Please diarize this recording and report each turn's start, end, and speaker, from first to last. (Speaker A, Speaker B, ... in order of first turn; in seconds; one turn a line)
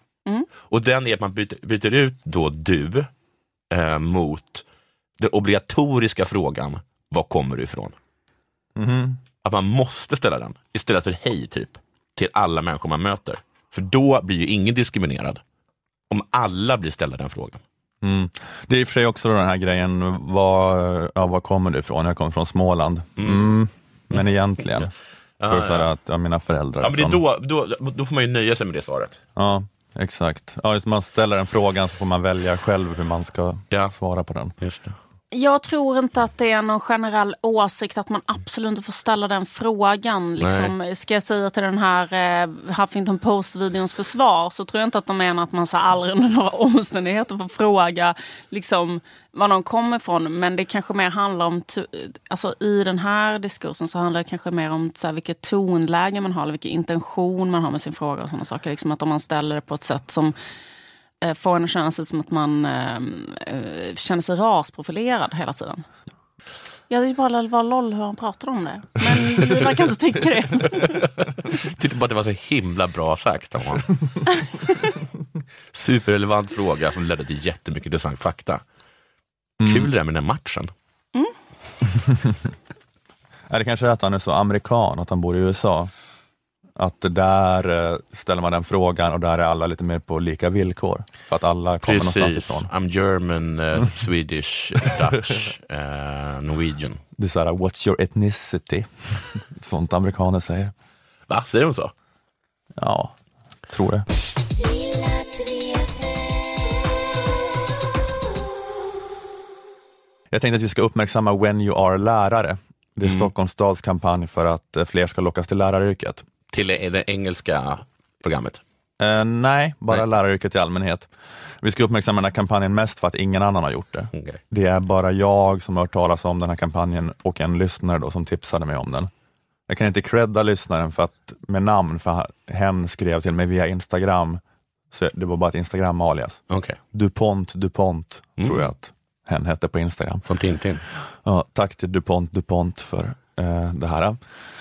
Speaker A: 0.7-3.1
Speaker A: 3.7-4.6
Speaker A: 5.2-7.9
Speaker B: 8.8-9.2
Speaker A: 9.4-15.4
Speaker A: 16.1-17.6
Speaker B: 18.0-24.9
Speaker A: 23.2-23.5
Speaker A: 25.4-25.9
Speaker B: 25.5-27.2
Speaker A: 26.8-29.2
Speaker B: 29.4-34.5
Speaker A: 34.6-35.0
Speaker C: 35.3-60.3
Speaker A: 40.4-40.7
Speaker C: 61.2-65.8
Speaker C: 66.9-71.0
Speaker A: 70.8-73.9
Speaker C: 74.4-74.7
Speaker A: 75.7-78.6
Speaker B: 79.6-79.9
Speaker A: 79.6-80.7
Speaker B: 83.5-85.9
Speaker B: 86.8-92.7
Speaker A: 91.8-97.0
Speaker B: 97.2-100.7
Speaker A: 101.3-101.9
Speaker B: 102.8-103.1
Speaker B: 103.7-104.0
Speaker B: 110.3-116.2
Speaker A: 113.0-113.3
Speaker A: 116.5-118.6
Speaker B: 119.0-121.1
Speaker B: 121.6-129.1
Speaker A: 124.1-124.4
Speaker B: 129.7-136.4
Speaker A: 136.5-136.8
Speaker B: 136.9-140.3
Speaker A: 138.4-138.7
Speaker A: 140.3-140.8
Speaker B: 141.0-144.2